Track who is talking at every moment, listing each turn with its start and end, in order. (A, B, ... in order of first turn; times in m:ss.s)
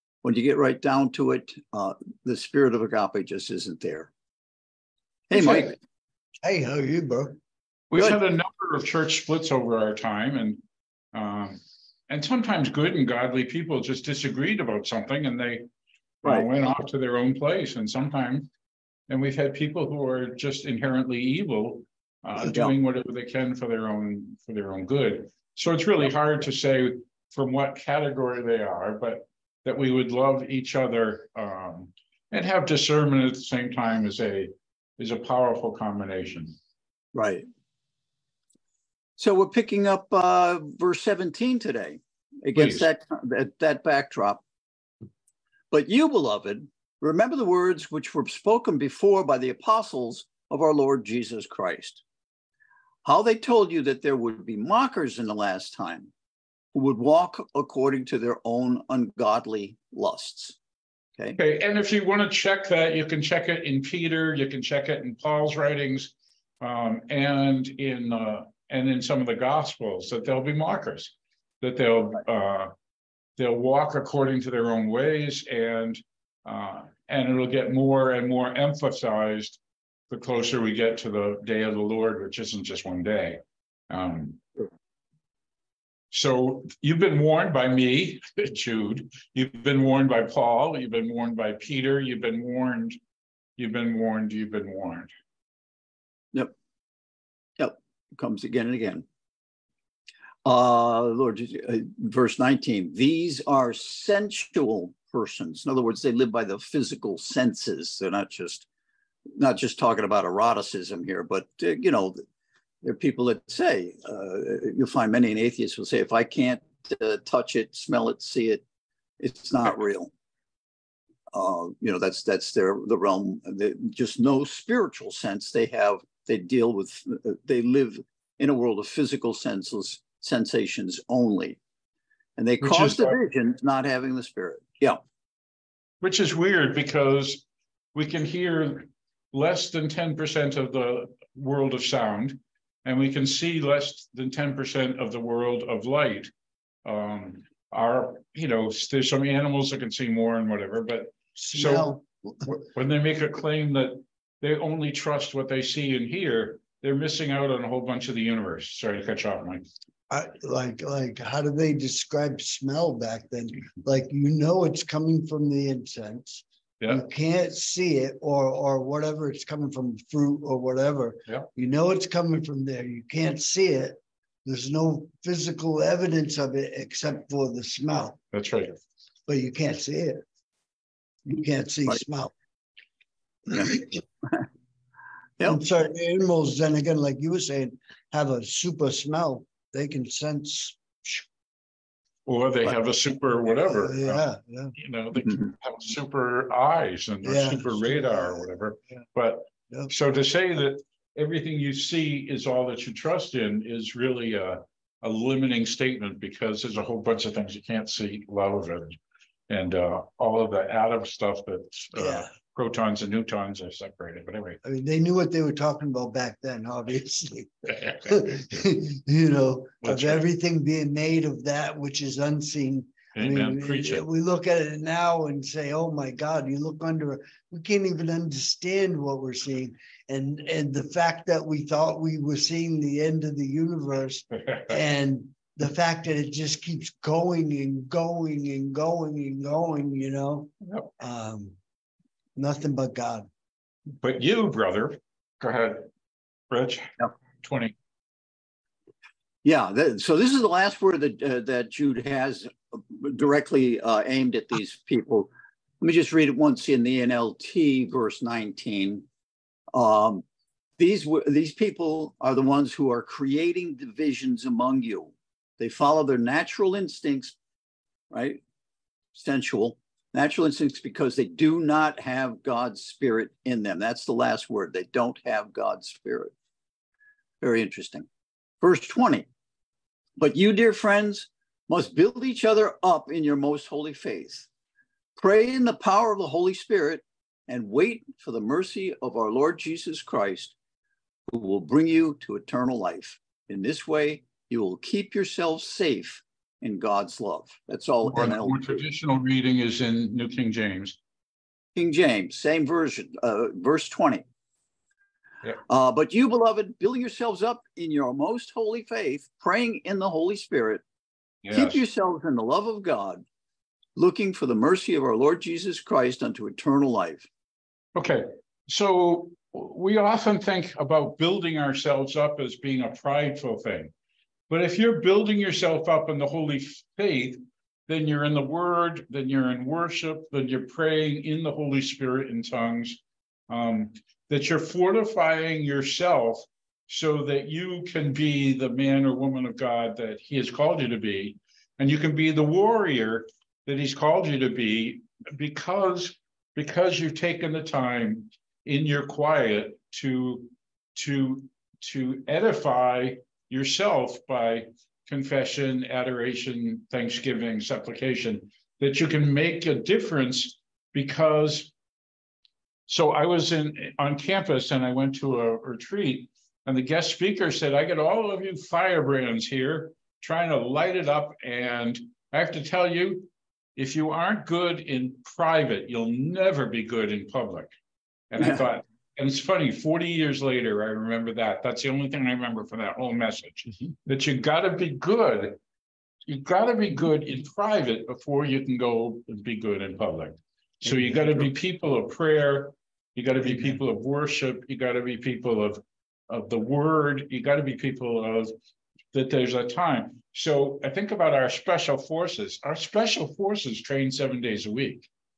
0:00.2-0:04.1 A
0:05.3-0:05.8 A
0:05.3-0:05.7 B
0:06.4-0:07.4 C
0:07.9-0:10.6 B
0:11.1-0:15.7 B
0:16.2-0:18.5 B
0:19.1-0:36.5 B
0:22.4-0:22.8 A
0:37.1-0:37.5 A
0:39.2-0:44.4 A
0:42.6-0:42.9 B
0:45.7-0:52.0 A
0:53.0-0:56.1 A
0:56.7-1:00.6 A
1:01.4-1:12.7 B
1:13.4-1:24.4 B
1:26.1-1:33.0 B
1:33.6-1:35.1 B
1:37.6-1:39.1 A
1:40.4-1:48.7 A
1:49.4-1:52.2 A
1:52.8-1:58.6 A
1:59.2-2:00.1 A
2:01.3-2:11.6 A
2:12.4-2:15.0 A
2:12.6-2:13.2 B
2:16.0-2:26.3 B
2:26.8-2:31.9 B
2:31.4-2:32.4 C
2:32.4-2:39.7 B
2:40.1-2:58.2 C
2:58.3-2:58.8 B
2:59.3-3:00.2 C
3:01.3-3:02.3 C
3:03.5-3:04.0 C
3:05.4-3:11.2 C
3:12.3-3:14.2 B
3:13.7-3:14.8 C
3:14.8-3:29.0 B
3:17.2-3:18.5 C
3:29.5-3:34.6 B
3:31.9-3:32.3 C
3:34.6-4:01.6 C
3:39.8-3:40.2 B
3:43.2-3:44.0 B
3:54.5-3:54.8 B
4:00.6-4:00.9 B
4:02.4-4:03.3 C
4:04.0-4:05.9 B
4:06.5-4:07.7 B
4:09.4-4:19.0 A
4:19.7-4:20.2 A
4:20.8-4:27.4 A
4:28.1-4:28.4 A
4:29.1-4:36.3 A
4:37.4-4:38.1 A
4:38.6-4:39.3 A
4:40.2-4:44.5 A
4:45.2-4:50.6 A
4:51.3-4:58.8 A
4:58.0-5:01.0 B
5:01.8-5:04.2 A
5:05.7-5:10.8 A
5:11.4-5:11.8 B
5:11.5-5:13.2 A
5:14.0-5:17.3 A
5:18.0-5:23.9 B
5:24.5-6:01.7 B
6:02.9-6:17.7 B
6:18.3-6:25.6 B
6:18.4-6:18.7 A
6:26.3-6:38.5 B
6:39.1-6:45.1 B